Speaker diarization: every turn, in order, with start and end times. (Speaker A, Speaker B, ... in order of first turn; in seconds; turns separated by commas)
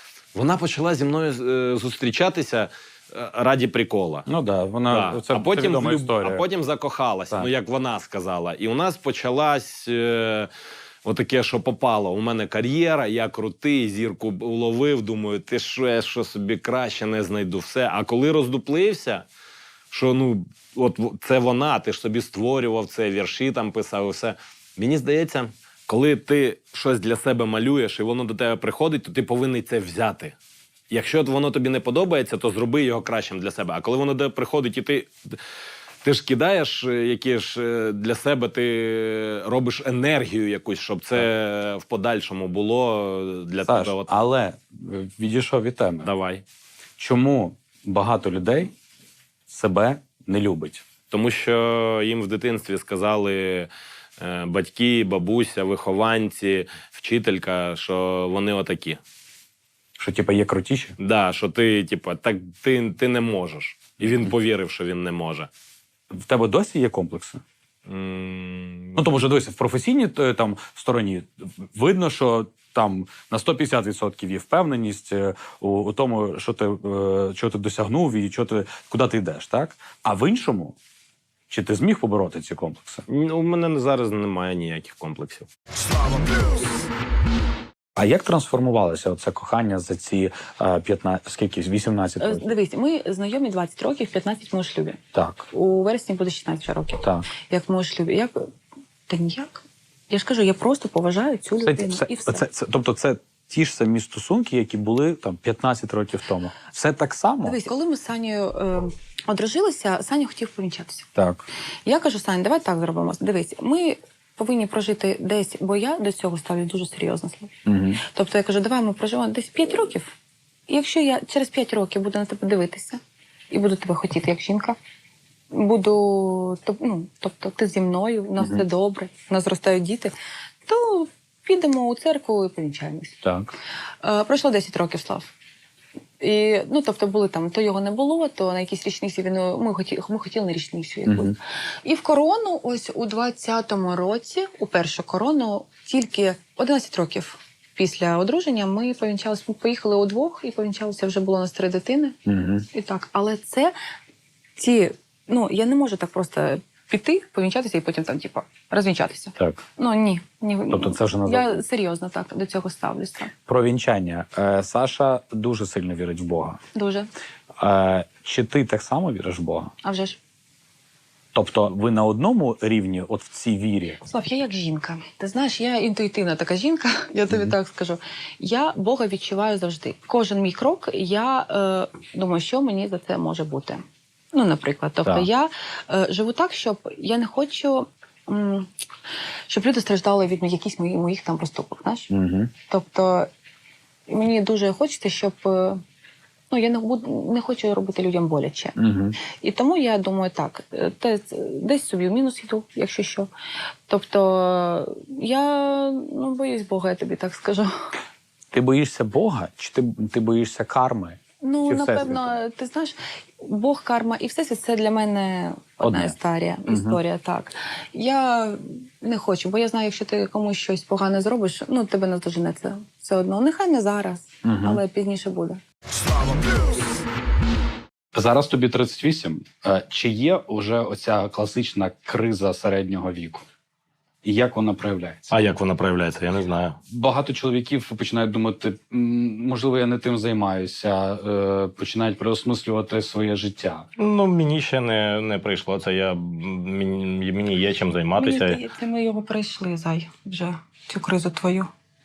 Speaker A: 0.3-4.3, Speaker B: 4.3-6.5, Speaker A: 4.9-10.5, Speaker A: 11.1-19.2, Speaker A: 19.9-30.4, Speaker A: 30.9-35.4, Speaker A: 36.0-44.1, Speaker B: 43.6-46.1, Speaker A: 46.0-46.4, Speaker B: 47.0-48.7, Speaker B: 49.5-50.8, Speaker A: 51.1-59.0, Speaker B: 60.0-61.0, Speaker A: 61.0-65.5, Speaker B: 66.1-67.4, Speaker A: 67.9-69.0, Speaker B: 69.0-80.8, Speaker B: 81.5-83.0, Speaker A: 83.1-85.5, Speaker B: 88.0-92.5, Speaker C: 92.2-95.0, Speaker B: 95.1-95.5, Speaker C: 95.5-98.5, Speaker C: 99.1-102.4, Speaker B: 101.6-107.6, Speaker C: 107.4-111.1, Speaker B: 111.2-111.5, Speaker C: 111.9-120.1, Speaker B: 117.7-118.0, Speaker C: 120.7-124.8, Speaker C: 125.5-130.1, Speaker C: 130.7-133.2, Speaker B: 133.2-133.5, Speaker C: 134.0-135.3, Speaker C: 136.2-152.2, Speaker B: 141.1-141.3, Speaker B: 152.3-152.7, Speaker C: 152.7-153.8, Speaker C: 154.6-163.3, Speaker B: 159.4-159.6, Speaker B: 160.7-161.6, Speaker B: 163.5-166.6, Speaker C: 166.8-167.1, Speaker B: 167.6-169.7, Speaker C: 169.8-170.2, Speaker B: 171.3-174.0, Speaker C: 174.1-188.7, Speaker C: 189.5-192.1, Speaker B: 192.1-192.5, Speaker C: 192.7-193.3, Speaker C: 194.1-195.8, Speaker C: 196.5-198.8, Speaker B: 198.8-199.2, Speaker C: 199.4-203.3, Speaker C: 203.9-207.9, Speaker B: 208.5-212.3, Speaker C: 211.4-225.6, Speaker B: 215.8-216.2, Speaker B: 216.7-217.0, Speaker B: 224.4-224.8, Speaker B: 228.1-233.4, Speaker B: 234.2-235.3, Speaker A: 235.3-236.8, Speaker B: 236.9-243.9, Speaker A: 244.0-248.6, Speaker C: 248.2-251.7